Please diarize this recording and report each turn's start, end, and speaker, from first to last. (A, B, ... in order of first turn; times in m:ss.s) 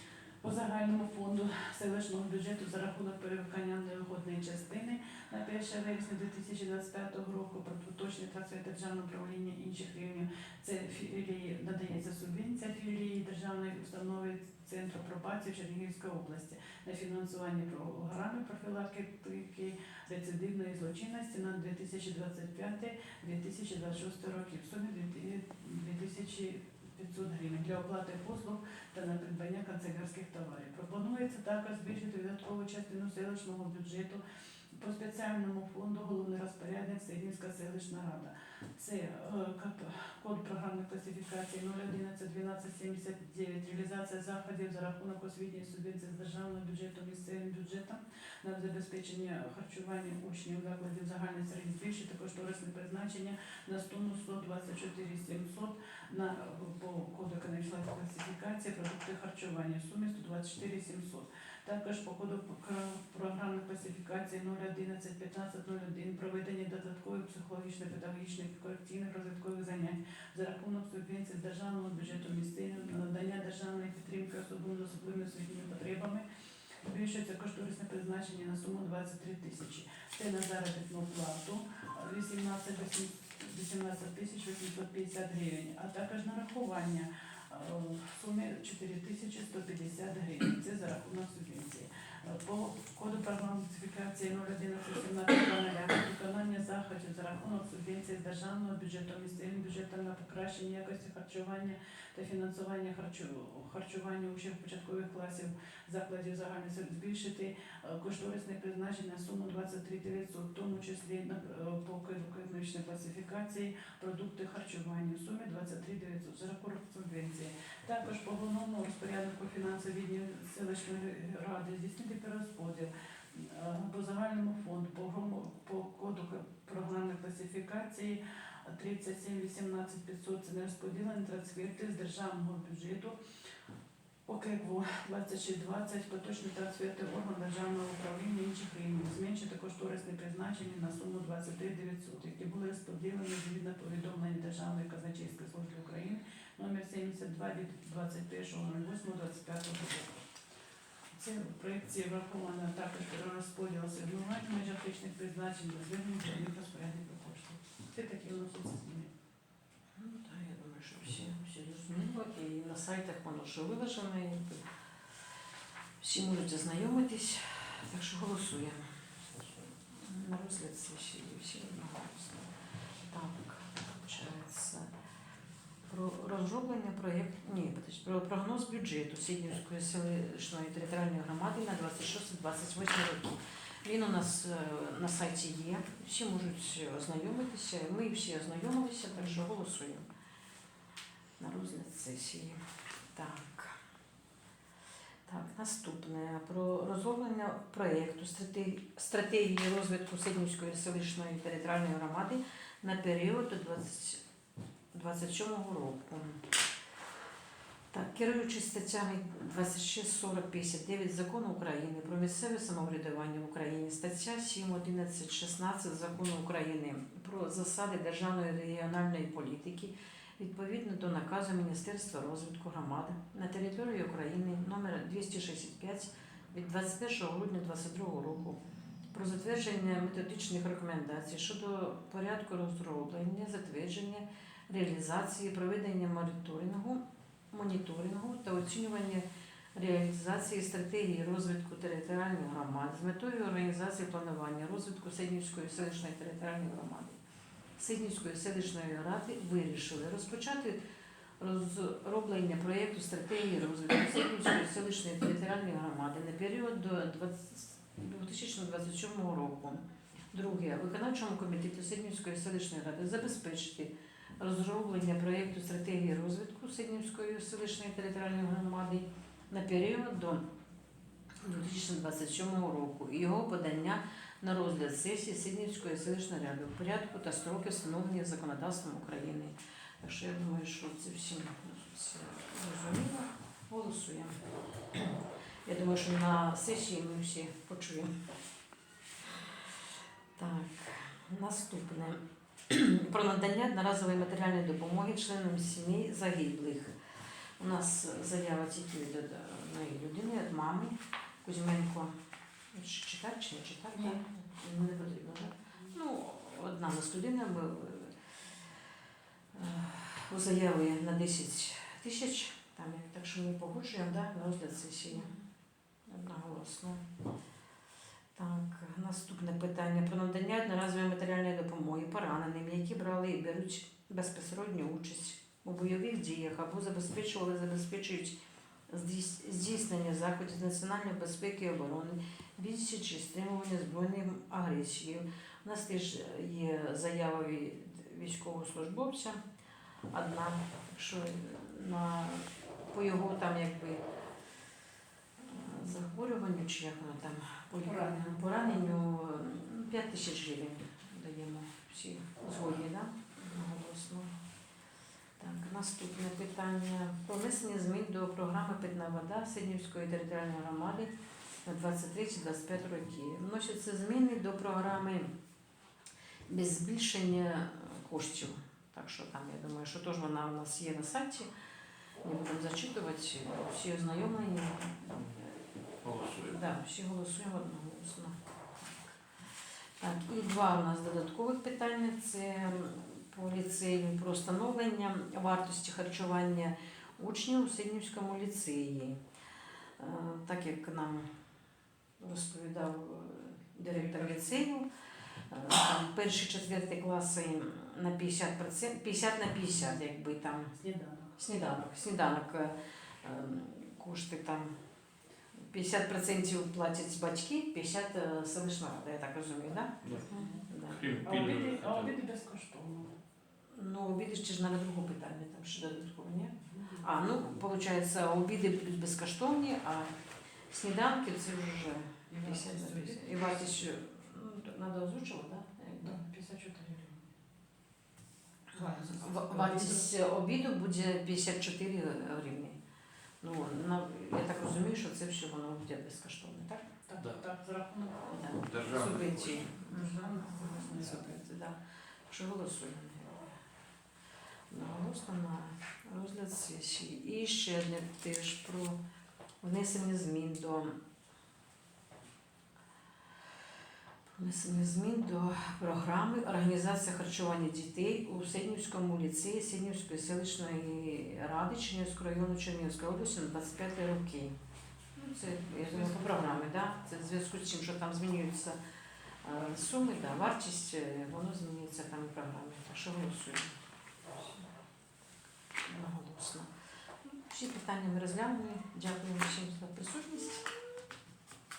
0:00.4-0:34.2 A
0:34.7-1:16.2 A
1:16.8-2:13.2 A
2:14.2-2:30.2 A
2:31.1-2:39.1 A
2:40.0-2:44.6 B
2:46.0-2:48.8 B
2:49.9-2:52.5 B
2:53.1-2:54.9 B
2:55.9-3:10.0 B
3:11.4-3:12.6 B
3:13.1-3:13.8 B
3:15.2-3:24.2 B
3:24.9-3:26.4 B
3:27.9-3:48.6 B
3:49.1-4:07.2 B
4:07.8-4:10.8 B
4:11.4-4:30.4 B
4:31.4-4:44.4 B
4:44.9-4:48.1 B
4:50.4-4:56.9 B
4:57.6-5:02.1 B
5:02.7-5:08.1 B
5:09.5-5:15.3 B
5:16.1-5:17.0 B
5:18.3-5:28.4 B
5:28.9-5:39.4 B
5:40.1-5:44.0 B
5:45.4-5:54.3 B
5:47.8-5:48.9 A
5:55.4-6:01.1 B
6:01.6-6:05.3 B
6:06.5-6:11.5 B
6:12.2-6:15.5 B
6:16.0-6:16.6 C
6:16.4-6:18.4 B
6:20.0-6:29.2 B
6:30.0-6:31.3 B
6:32.2-6:34.8 B
6:33.9-6:34.5 A
6:35.5-6:40.7 B
6:40.7-6:41.4 A
6:41.4-6:44.7 B
6:45.7-6:50.2 B
6:50.0-6:50.3 C
6:50.3-6:50.6 A
6:50.7-6:51.2 B
6:50.9-6:52.1 C
6:51.2-6:53.1 A
6:53.7-7:00.1 B
6:56.7-6:57.1 A
7:00.7-7:06.2 B
7:02.3-7:03.9 A
7:06.0-7:07.2 A
7:08.7-7:10.1 A
7:08.8-7:12.8 B
7:13.4-7:16.8 B
7:17.1-7:21.4 A
7:18.3-7:23.6 B
7:18.6-7:19.7 C
7:24.7-7:29.0 B
7:29.6-7:30.9 B
7:34.4-7:44.5 B
7:45.2-7:48.8 B
7:45.9-7:46.6 A
7:49.4-7:53.8 B
7:55.9-7:56.7 B
7:57.2-8:00.7 B